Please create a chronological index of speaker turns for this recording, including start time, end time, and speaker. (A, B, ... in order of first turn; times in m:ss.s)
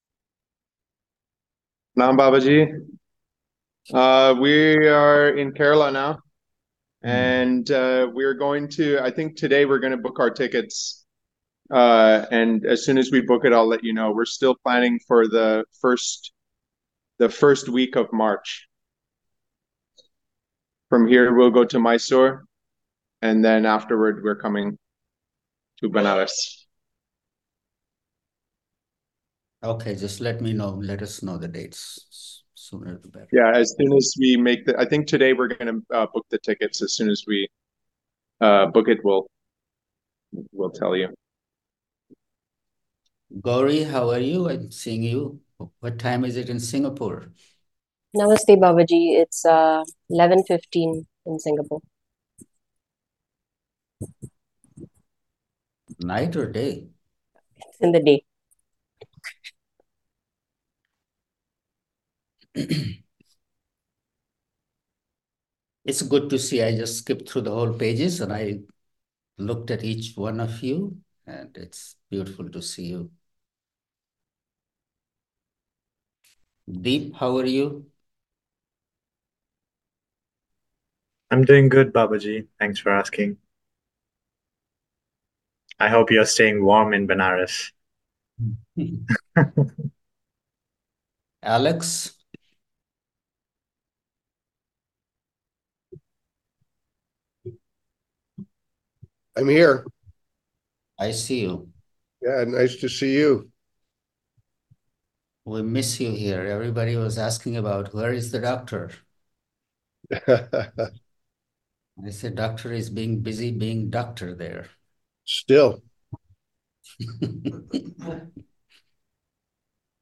0:02.0-0:02.8 A
0:03.9-0:06.2 A
0:07.0-0:11.0 A
0:11.7-0:16.3 A
0:17.2-0:18.7 A
0:20.9-0:22.4 A
0:23.2-0:24.8 A
0:25.8-0:26.6 A
0:29.6-0:33.3 B
0:33.3-0:37.5 A
0:38.4-0:39.3 A
0:40.4-0:41.1 A
0:43.3-0:47.3 B
0:48.1-0:51.8 C
0:56.0-0:56.9 B
0:57.7-0:58.2 C
1:05.8-1:08.6 B
1:09.4-1:13.1 B
1:16.7-1:17.9 B
1:21.3-1:23.4 D
1:25.8-1:27.7 D
1:31.4-1:32.2 B
1:39.4-1:39.8 E
1:41.0-1:41.7 B
1:42.2-1:43.5 E
1:45.4-1:49.0 B
1:50.1-1:50.9 E
1:52.0-1:54.7 B
1:55.3-1:55.8 E
1:57.0-1:57.8 B